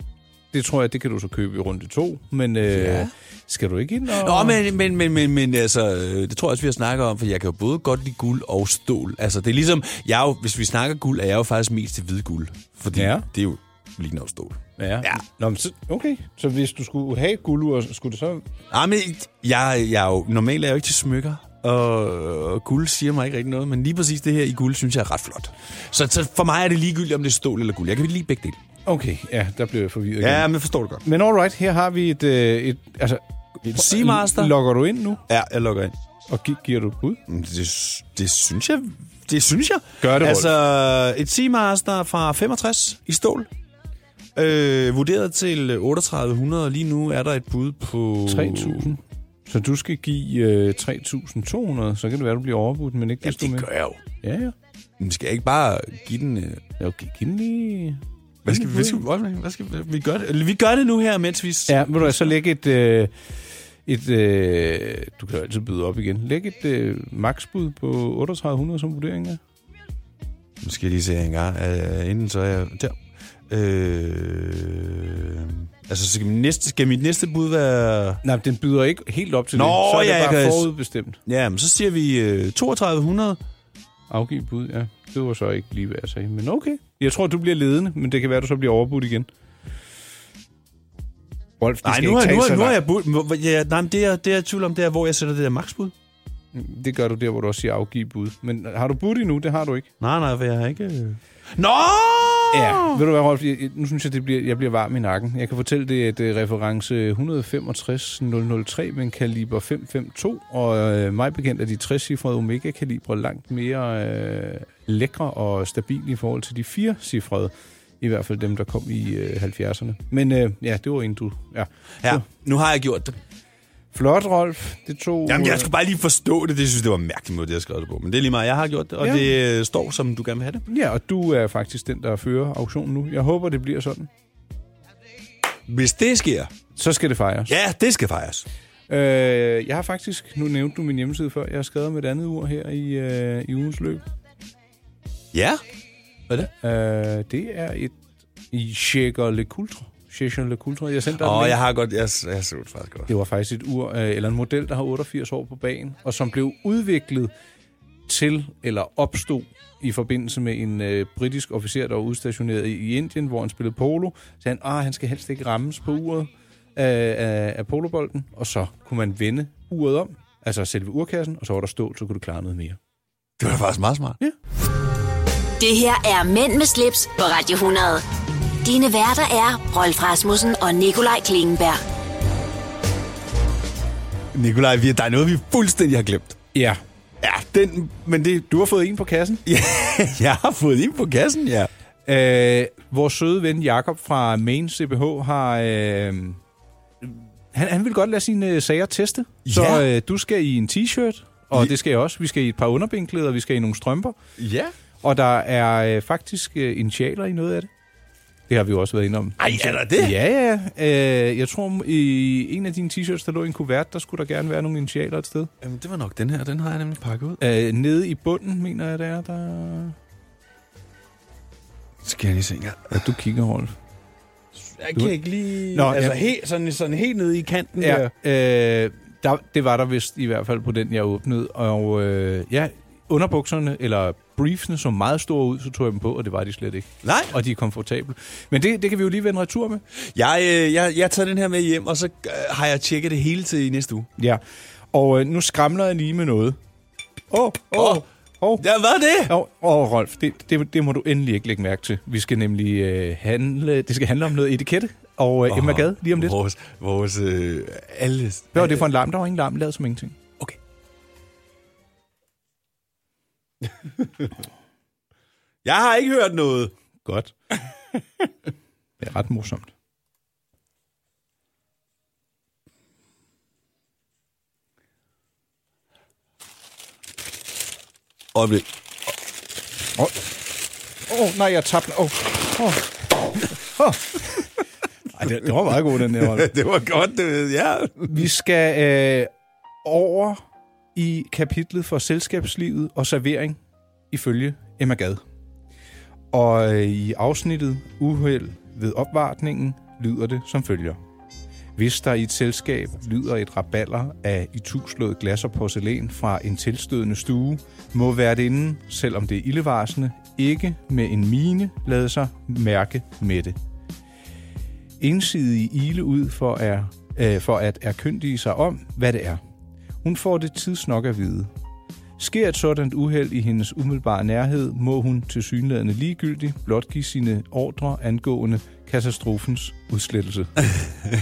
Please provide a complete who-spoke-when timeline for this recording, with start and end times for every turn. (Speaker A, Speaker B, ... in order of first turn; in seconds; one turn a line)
Speaker A: 0.5-4.6
Speaker B: 2.7-3.1
Speaker B: 4.1-15.2
Speaker A: 12.9-13.3
Speaker A: 14.8-18.4
Speaker B: 18.7-28.6
Speaker A: 28.9-30.5
Speaker B: 30.2-31.0
Speaker A: 31.0-35.2
Speaker B: 33.6-34.5
Speaker B: 35.3-35.9
Speaker A: 36.3-37.2
Speaker B: 37.3-43.5
Speaker A: 40.0-40.5
Speaker B: 44.3-48.9
Speaker A: 48.2-53.7
Speaker B: 53.2-54.0
Speaker A: 54.2-54.5
Speaker B: 55.0-56.6
Speaker A: 56.8-59.0
Speaker B: 58.4-62.3
Speaker A: 61.7-63.1
Speaker A: 63.9-69.4
Speaker B: 70.6-73.0
Speaker B: 73.5-78.2
Speaker A: 78.2-81.2
Speaker B: 79.5-80.7
Speaker B: 81.2-83.4
Speaker A: 84.1-89.3
Speaker A: 91.6-92.8
Speaker B: 91.8-95.9
Speaker A: 96.5-99.9
Speaker B: 100.0-103.0
Speaker A: 102.5-122.2
Speaker B: 122.0-123.2
Speaker A: 123.9-125.7
Speaker B: 125.2-130.6
Speaker A: 129.0-129.3
Speaker A: 130.7-134.1
Speaker B: 135.7-136.5
Speaker A: 136.8-137.5
Speaker B: 137.5-138.4
Speaker A: 138.9-144.0
Speaker B: 145.3-145.6
Speaker A: 146.3-148.0
Speaker A: 148.5-151.6
Speaker B: 151.1-153.1
Speaker A: 153.1-157.3
Speaker A: 158.1-172.8
Speaker B: 173.4-174.2
Speaker C: 175.6-178.0
Speaker C: 178.6-181.8
Speaker B: 184.3-186.4
Speaker A: 186.5-186.8
Speaker B: 187.2-188.5
Speaker A: 188.5-189.4
Speaker B: 189.4-191.7
Speaker A: 192.1-196.4
Speaker A: 197.0-204.2
Speaker B: 199.4-199.8
Speaker B: 204.4-204.7
Speaker A: 205.0-207.7
Speaker A: 208.5-215.5
Speaker B: 209.4-210.2
Speaker B: 215.6-217.4
Speaker A: 217.4-219.9
Speaker B: 222.0-223.0
Speaker A: 222.9-223.7
Speaker B: 224.5-228.1
Speaker A: 225.7-226.2
Speaker A: 227.8-239.8
Speaker B: 237.0-237.3
Speaker B: 239.9-244.1
Speaker A: 244.9-246.6
Speaker A: 247.3-248.6
Speaker B: 247.7-248.0
Speaker B: 248.6-249.3
Speaker A: 249.3-256.3
Speaker B: 255.5-258.8
Speaker A: 258.5-260.2
Speaker B: 264.0-264.3
Speaker B: 265.6-266.7
Speaker A: 267.0-268.3
Speaker A: 269.0-269.7
Speaker B: 278.3-278.7
Speaker A: 281.1-284.6
Speaker A: 285.1-286.5
Speaker B: 285.9-288.2
Speaker A: 288.1-289.3
Speaker A: 289.8-290.4
Speaker A: 290.9-293.6
Speaker A: 294.1-295.2
Speaker A: 296.3-301.0
Speaker A: 301.8-313.6
Speaker A: 315.0-319.4
Speaker A: 320.0-321.5
Speaker A: 322.2-330.9